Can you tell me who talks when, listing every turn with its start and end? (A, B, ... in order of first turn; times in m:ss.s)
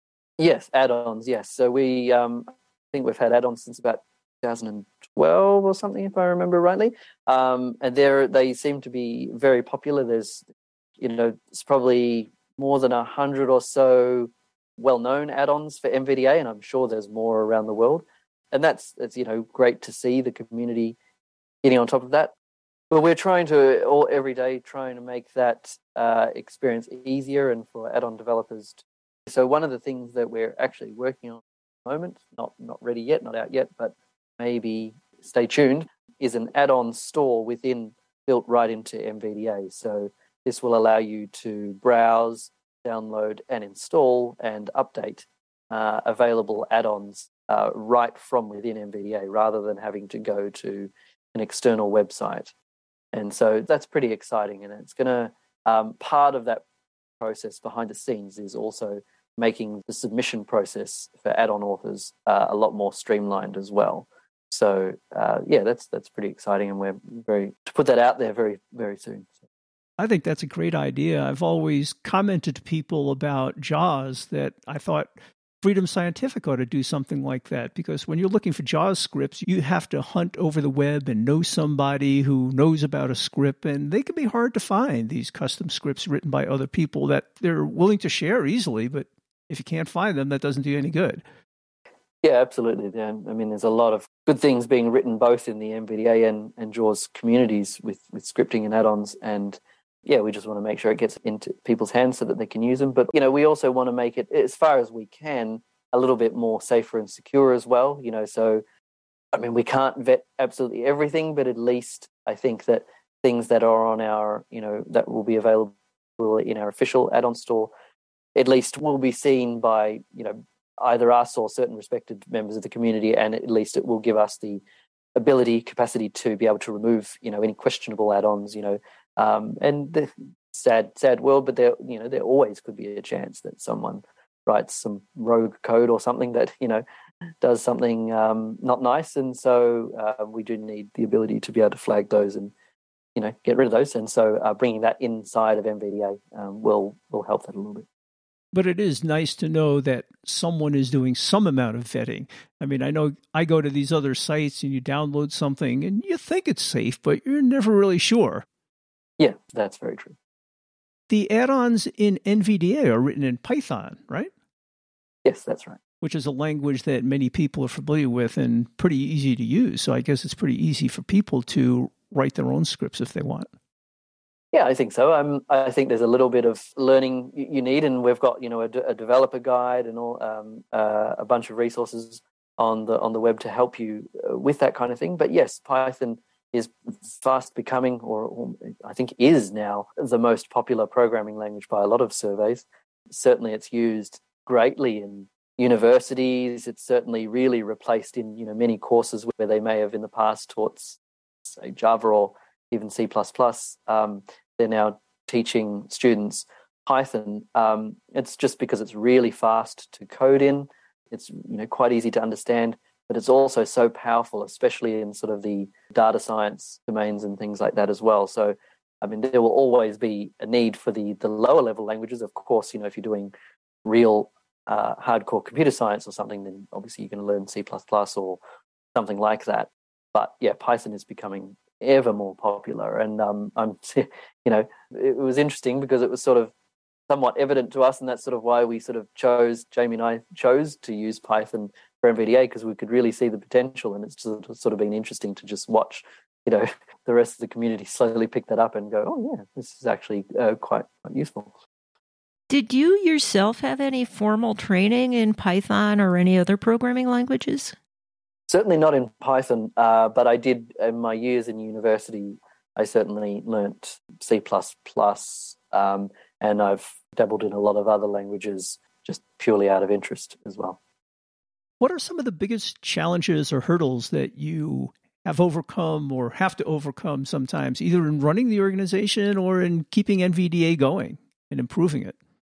0:00.4-0:10.4 A
0:11.0-0:21.0 A
0:21.6-0:22.3 A
0:22.9-0:52.5 A
0:53.1-0:56.6 A
0:57.2-1:09.3 A
1:10.0-1:15.1 B
1:15.6-1:31.2 B
1:32.2-1:48.6 A
1:49.3-1:57.7 A
1:58.3-2:04.6 A
2:05.1-2:16.8 A
2:17.4-2:22.5 A
2:23.2-2:27.8 A
2:28.5-2:38.4 B
2:39.2-2:40.1 A
2:41.1-2:44.3 B
2:45.2-2:45.8 A
2:46.0-2:53.5 B
2:54.5-3:43.3 A
3:43.8-3:48.4 A
3:48.9-3:56.5 A
3:57.1-4:11.5 A
4:12.5-4:17.7 C
4:18.5-4:30.8 A
4:31.8-4:42.2 B